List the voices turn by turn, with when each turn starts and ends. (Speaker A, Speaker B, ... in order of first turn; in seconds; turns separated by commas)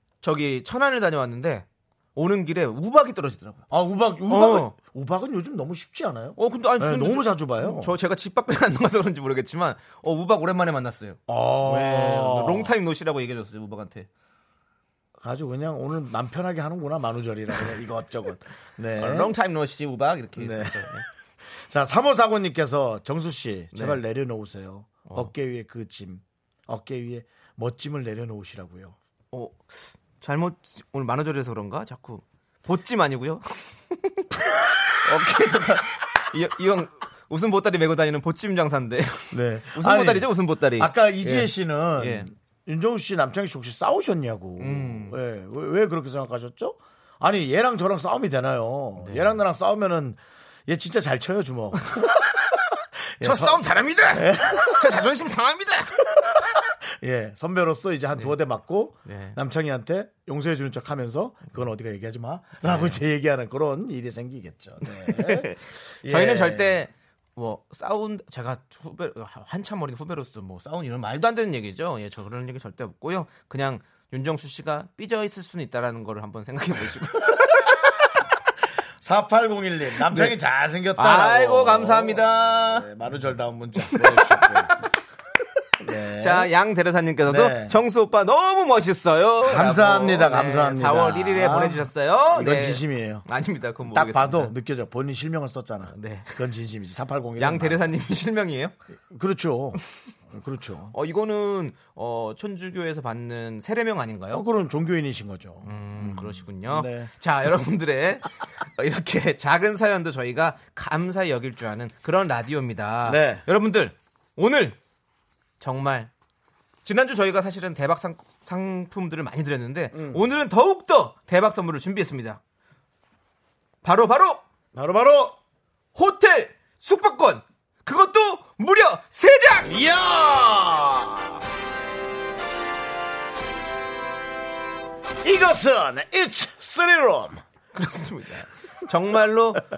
Speaker A: 0.2-3.6, Speaker B: 3.7-7.9, Speaker A: 4.3-4.7, Speaker A: 6.4-14.1, Speaker B: 11.3-12.7, Speaker B: 15.2-19.3, Speaker A: 18.9-21.0, Speaker B: 20.4-21.0, Speaker B: 21.5-28.9, Speaker A: 23.7-24.0, Speaker A: 29.3-34.3, Speaker A: 35.0-42.3, Speaker B: 39.3-55.1, Speaker A: 44.6-45.2, Speaker A: 49.0-49.4, Speaker A: 53.2-56.4, Speaker B: 56.1-65.5, Speaker A: 59.0-59.4, Speaker A: 62.6-63.0, Speaker A: 64.8-78.1, Speaker B: 66.0-66.8, Speaker B: 79.0-84.8, Speaker A: 80.0-80.3, Speaker A: 81.0-82.9, Speaker A: 83.9-84.5, Speaker B: 85.8-86.5, Speaker A: 86.2-94.5, Speaker B: 87.2-87.8, Speaker B: 89.4-93.2, Speaker B: 93.8-97.9, Speaker A: 95.9-96.4, Speaker A: 97.4-98.7, Speaker B: 99.1-100.9, Speaker A: 100.9-104.4, Speaker B: 104.3-107.1, Speaker A: 105.6-114.8, Speaker B: 113.0-113.4, Speaker A: 115.6-116.1, Speaker A: 116.8-122.4, Speaker B: 119.9-120.2, Speaker A: 123.8-124.4, Speaker B: 124.7-125.4, Speaker A: 125.9-129.7, Speaker B: 129.6-131.4, Speaker B: 135.2-137.4, Speaker A: 137.7-139.6